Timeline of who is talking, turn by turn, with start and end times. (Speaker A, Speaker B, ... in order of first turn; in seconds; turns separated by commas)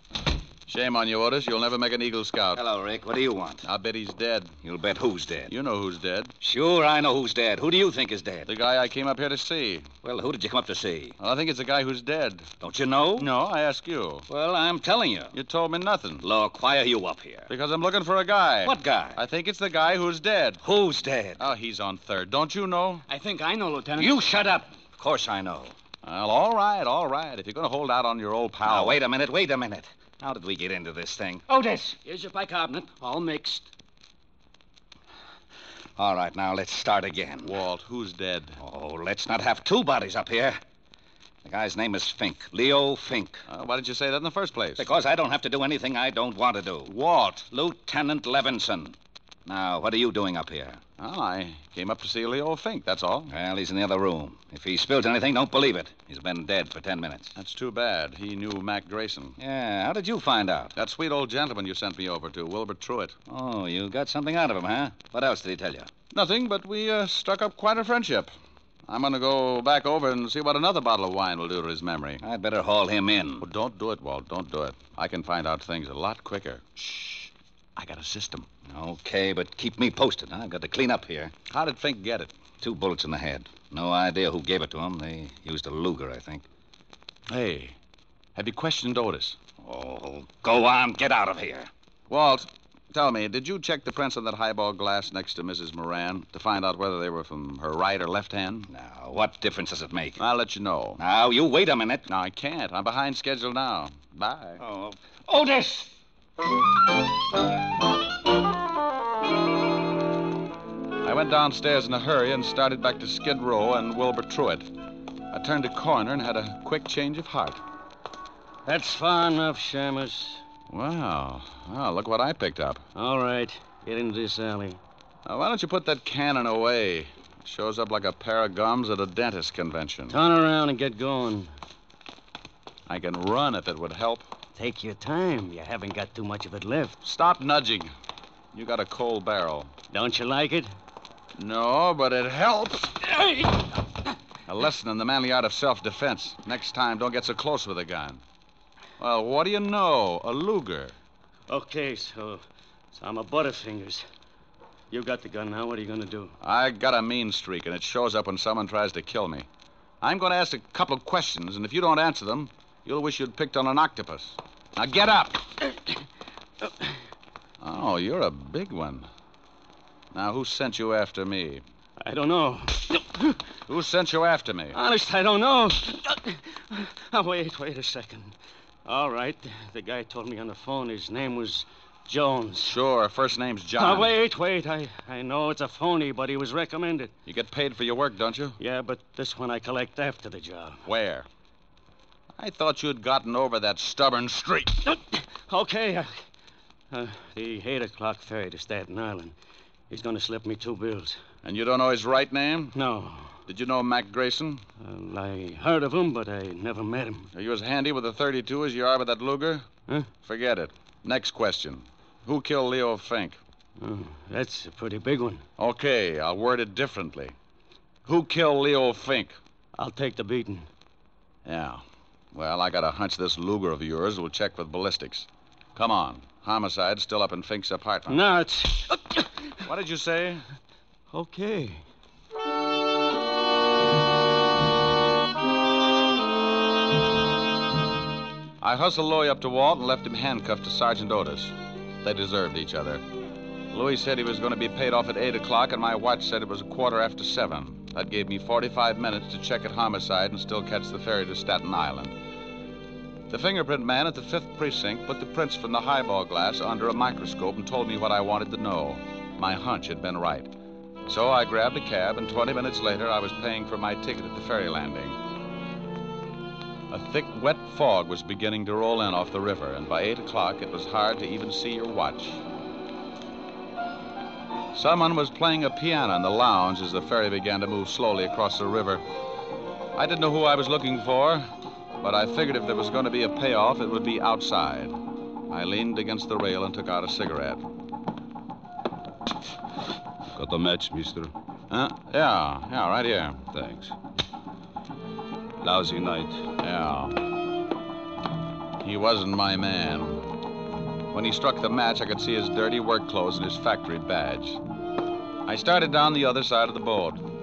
Speaker A: 0.7-2.6, Speaker B: 2.6-3.6, Speaker A: 3.6-4.5, Speaker B: 4.6-5.5, Speaker A: 5.5-6.3, Speaker B: 6.4-8.5, Speaker A: 8.5-9.9, Speaker B: 10.0-11.2, Speaker A: 11.2-12.5, Speaker B: 12.6-13.3, Speaker A: 13.2-14.3, Speaker B: 14.3-15.3, Speaker A: 15.3-16.2, Speaker B: 16.2-17.5, Speaker A: 17.5-20.6, Speaker B: 18.6-19.2, Speaker B: 20.6-21.4, Speaker A: 21.4-23.1, Speaker C: 23.1-24.4, Speaker B: 24.0-25.8, Speaker A: 26.0-29.0, Speaker B: 28.6-31.5, Speaker C: 31.5-33.7, Speaker B: 36.0-37.6, Speaker A: 37.4-38.6, Speaker B: 38.6-40.6, Speaker B: 41.5-43.4, Speaker A: 43.5-44.9, Speaker B: 44.8-46.9, Speaker A: 46.9-47.5, Speaker B: 47.5-50.8, Speaker A: 51.0-53.3, Speaker B: 53.3-57.4, Speaker A: 57.4-59.4, Speaker B: 59.4-60.8, Speaker A: 60.8-63.2, Speaker B: 63.3-65.9, Speaker A: 66.1-68.3, Speaker A: 68.9-72.2, Speaker B: 72.2-73.5, Speaker A: 73.4-78.5, Speaker B: 78.7-81.3, Speaker A: 81.5-82.3, Speaker B: 82.6-86.5, Speaker A: 87.3-87.8, Speaker A: 88.4-89.4, Speaker B: 89.6-91.7, Speaker A: 92.1-98.7, Speaker B: 98.7-100.2, Speaker A: 100.2-101.0, Speaker B: 101.0-102.1, Speaker A: 102.1-104.6, Speaker B: 104.6-105.9, Speaker A: 111.0-114.7, Speaker A: 115.3-117.6, Speaker D: 118.7-120.4, Speaker A: 120.7-122.8, Speaker D: 123.0-124.8, Speaker A: 125.3-130.2, Speaker D: 130.1-131.5, Speaker A: 132.9-134.3, Speaker D: 134.6-137.0, Speaker A: 137.0-137.9, Speaker A: 138.5-139.7, Speaker D: 139.9-140.7, Speaker A: 141.4-143.0, Speaker D: 143.2-143.5, Speaker A: 144.5-148.2, Speaker A: 149.0-150.9, Speaker D: 151.5-152.4, Speaker D: 152.9-154.0, Speaker D: 154.9-156.3, Speaker A: 156.4-159.5, Speaker A: 160.0-165.5, Speaker D: 166.6-166.9, Speaker A: 167.6-169.1, Speaker A: 170.1-171.6, Speaker D: 172.0-173.4, Speaker A: 173.7-174.8, Speaker D: 174.7-182.8, Speaker A: 182.6-184.1, Speaker D: 183.8-187.1, Speaker A: 187.3-188.6, Speaker D: 188.6-190.8, Speaker A: 190.8-191.3, Speaker A: 192.4-194.8, Speaker D: 194.8-196.1, Speaker D: 196.9-199.3, Speaker D: 199.9-201.2, Speaker A: 201.4-202.8, Speaker D: 202.8-203.4, Speaker A: 203.5-204.6, Speaker D: 204.8-207.3, Speaker A: 207.3-209.7, Speaker A: 210.2-213.4, Speaker D: 213.8-215.4, Speaker A: 215.6-217.3, Speaker A: 218.1-219.4, Speaker D: 219.8-220.7, Speaker A: 221.4-228.2, Speaker D: 228.1-229.4, Speaker A: 229.6-230.5, Speaker D: 231.1-231.8, Speaker A: 238.6-243.0, Speaker A: 243.7-252.2, Speaker A: 253.3-260.5, Speaker A: 261.1-265.2, Speaker A: 266.9-272.4, Speaker A: 274.7-279.0, Speaker A: 279.9-281.4, Speaker A: 282.0-285.0, Speaker A: 285.5-287.6, Speaker E: 290.3-291.3, Speaker A: 291.7-293.4, Speaker E: 293.5-293.9, Speaker E: 295.6-296.4, Speaker A: 296.6-297.2, Speaker A: 298.8-300.3, Speaker A: 301.1-304.6, Speaker A: 305.5-307.2